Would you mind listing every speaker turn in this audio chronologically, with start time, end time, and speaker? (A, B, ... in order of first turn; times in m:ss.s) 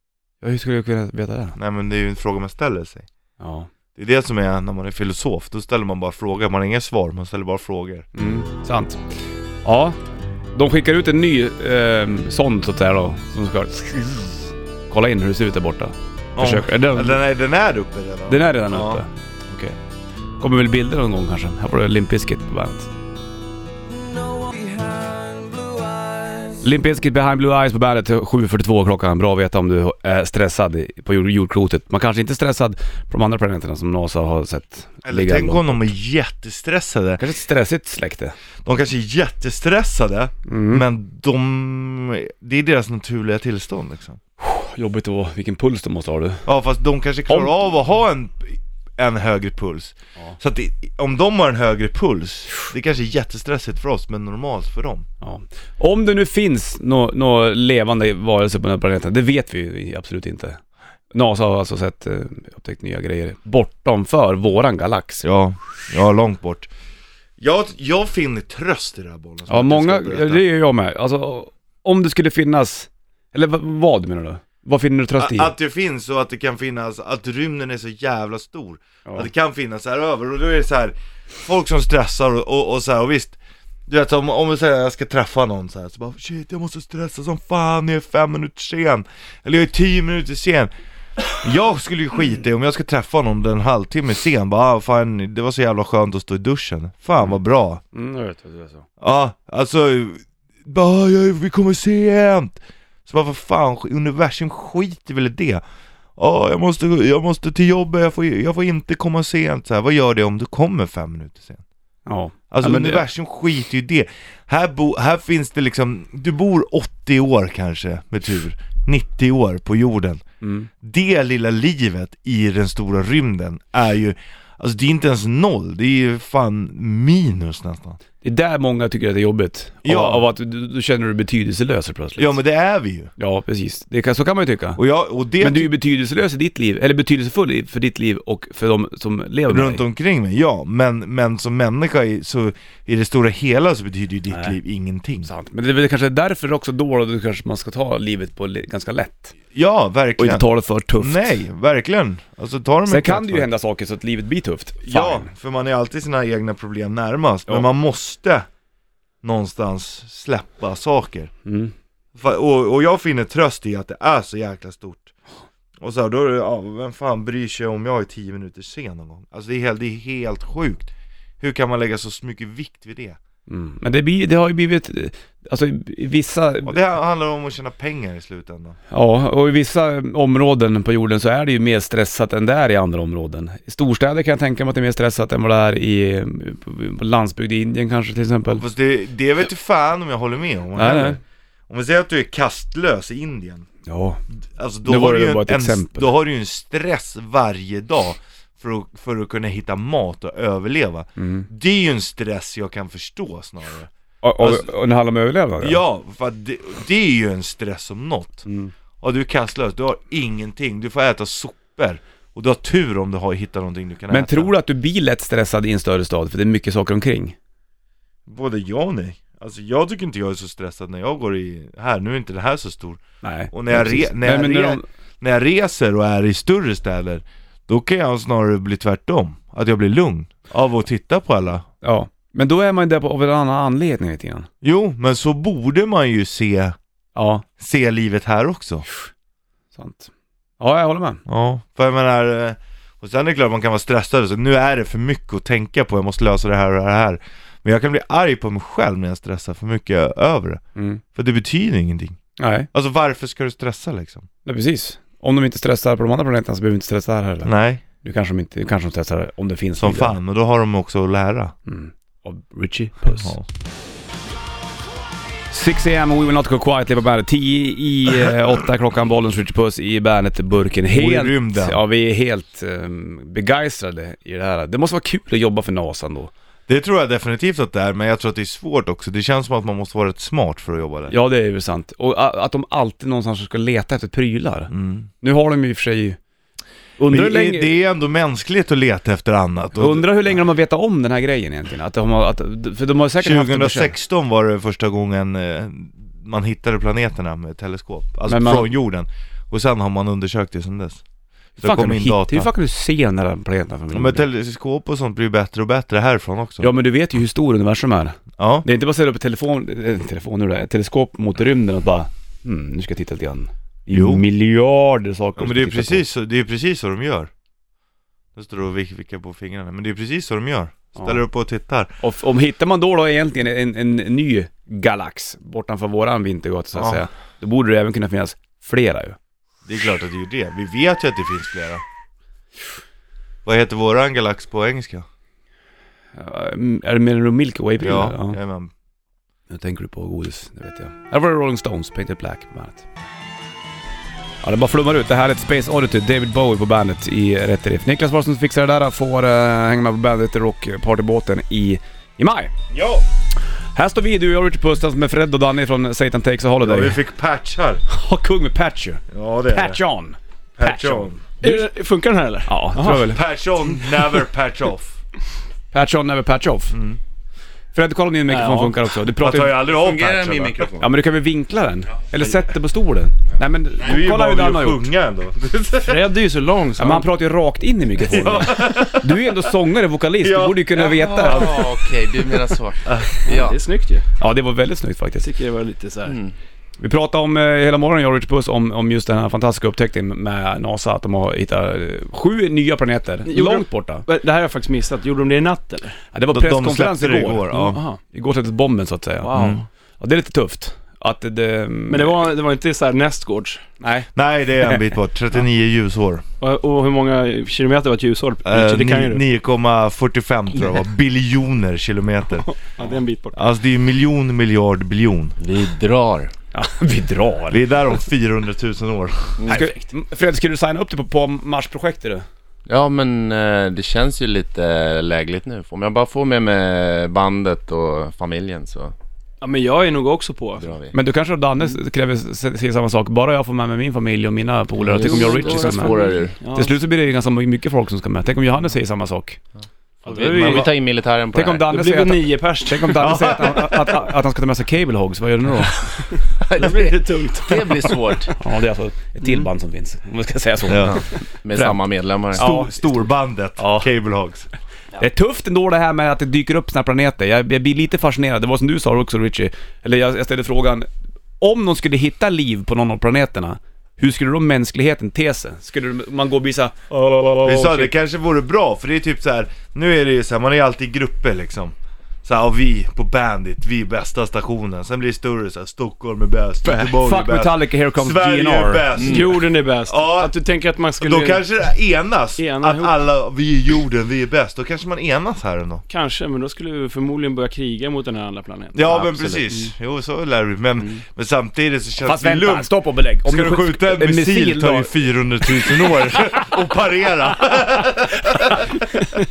0:00.4-0:01.6 A
0:01.6-0:03.1 B
0:03.4-0:03.7 A
0:03.9-0:08.1 B
0:08.1-0:10.0 A
0:10.5-0:17.2 A
0:16.4-0:19.0 B
0:18.3-0:19.8 A
0:20.4-0:22.9 A
0:24.5-0:25.4 B
0:26.6-0:35.9 A
0:35.0-0:37.2 B
0:37.2-0:38.3 A
0:38.6-0:44.2 B
0:40.5-0:40.8 A
0:44.4-0:46.4 A
0:46.4-0:55.1 B
0:55.2-1:00.6 A
1:01.1-1:05.2 A
1:05.2-1:06.7 B
1:07.4-1:10.4 B
1:09.5-1:15.5 A
1:15.2-1:30.7 B
1:31.3-1:37.8 B
1:37.9-1:38.8 A
1:39.0-1:45.6 B
1:46.2-1:51.6 B
1:52.0-1:53.0 A
1:52.5-2:00.2 B
2:00.4-2:00.7 A
2:00.8-2:08.0 B
2:08.2-2:12.4 A
2:09.8-2:10.2 B
2:12.2-2:13.1 B
2:13.2-2:14.8 A
2:14.8-2:15.7 B
2:15.4-2:19.8 A
2:19.5-2:25.3 B
2:24.3-2:24.6 A
2:25.2-2:29.3 A
2:29.5-2:30.4 B
2:30.2-2:31.4 A
2:31.0-2:33.5 B
2:32.9-2:35.3 A
2:34.8-2:38.5 B
2:39.2-2:41.3 B
2:41.4-2:41.7 A
2:42.1-2:45.1 B
2:45.8-2:53.2 B
2:53.5-2:56.8 A
2:56.6-2:58.8 B
2:58.9-3:08.6 A
3:08.6-3:13.7 B
3:10.8-3:11.2 A
3:13.8-3:14.2 A
3:14.4-3:24.7 B
3:14.8-3:16.1 A
3:21.2-3:21.5 A
3:24.2-3:25.8 A
3:25.6-3:28.4 B
3:28.4-3:28.7 A
3:29.0-3:34.5 B
3:34.1-3:37.3 A
3:38.3-3:51.6 B
3:43.2-3:44.8 A
3:51.8-3:54.5 A
3:54.6-3:56.8 B
3:57.1-3:57.4 A
3:57.6-3:58.8 B
3:59.7-4:01.2 A
4:01.2-4:10.6 B
4:10.8-4:11.0 A
4:11.1-4:12.2 B
4:12.4-4:12.7 A
4:12.7-4:14.2 B
4:14.4-4:20.2 A
4:17.4-4:17.8 B
4:19.8-4:21.5 B
4:21.6-4:23.3 A
4:23.0-4:23.4 B
4:25.5-4:36.3 A
4:30.9-4:31.8 B
4:36.7-4:41.1 B
4:41.1-4:46.2 A
4:44.7-4:45.1 B
4:47.0-4:47.7 A
4:47.1-4:50.3 B
4:49.8-4:53.9 A
4:53.2-5:01.0 B
4:58.3-4:58.7 A
5:01.6-5:02.5 B
5:01.6-5:04.2 A
5:03.9-5:06.7 B
5:06.6-5:16.0 A
5:08.4-5:08.6 B
5:13.9-5:14.2 B
5:15.4-5:17.3 B
5:18.3-5:21.9 B
5:22.0-5:29.2 A
5:26.7-5:27.0 B
5:29.6-5:31.8 B
5:33.4-5:35.0 B
5:36.2-5:38.4 A
5:37.8-5:38.7 B
5:39.5-5:42.8 A
5:44.4-5:52.5 A
5:52.7-5:53.0 B
5:53.7-5:57.0 A
5:56.6-5:57.8 B
5:57.9-6:01.7 A
5:59.1-5:59.8 B
6:00.6-6:01.2 B
6:01.4-6:03.1 C
6:02.5-6:03.2 A
6:02.8-6:05.0 B
6:05.7-6:06.7 A
6:06.7-6:07.0 B
6:07.7-6:09.6 A
6:08.3-6:08.8 C
6:09.2-6:10.7 B
6:09.7-6:10.9 D
6:10.8-6:14.8 A
6:13.8-6:16.0 B
6:15.8-6:17.1 C
6:16.8-6:21.7 A
6:18.0-6:19.3 B
6:20.2-6:21.7 B
6:20.8-6:23.6 D
6:22.8-6:23.2 B
6:23.2-6:24.0 C
6:24.2-6:25.3 A
6:25.2-6:26.2 C
6:26.0-6:26.3 D
6:26.8-6:34.0 A
6:33.2-6:36.0 C
6:36.1-6:42.1 A
6:36.3-6:37.8 B
6:37.7-6:38.0 C
6:39.2-6:39.6 C
6:39.3-6:39.6 B
6:41.9-6:43.6 C
6:43.8-6:44.1 A
6:44.1-6:46.2 B
6:46.4-6:49.2 C
6:48.4-6:52.5 B
6:52.5-6:53.4 C
6:53.3-6:55.4 B
6:55.4-6:56.3 D
6:56.5-6:57.6 A
6:57.5-6:59.4 B
6:59.4-6:59.7 D
6:59.5-7:02.2 A
7:02.6-7:08.9 D
7:09.4-7:10.7 C
7:10.6-7:10.9 D
7:10.9-7:16.0 A
7:14.8-7:16.4 D
7:15.0-7:16.7 C
7:16.5-7:19.4 A
7:20.0-7:21.7 D
7:20.0-7:20.7 C
7:20.2-7:20.7 A
7:21.3-7:25.8 A
7:21.7-7:23.5 C
7:23.0-7:23.8 B
7:26.4-7:28.3 D
7:26.6-7:28.1 C
7:28.4-7:31.8 A
7:30.7-7:31.0 B
7:30.8-7:32.5 D
7:32.3-7:32.8 A
7:32.3-7:34.5 B
7:33.6-7:33.9 A
7:35.0-7:40.9 A
7:41.4-7:47.9 A
7:47.4-8:00.3 B
7:56.6-7:58.9 A
7:59.0-7:59.2 D
7:59.0-8:01.4 C
8:01.0-8:05.8 B
8:02.4-8:02.9 C
8:05.9-8:09.7 C
8:08.7-8:12.7 B
8:12.0-8:14.9 A
8:13.2-8:18.8 B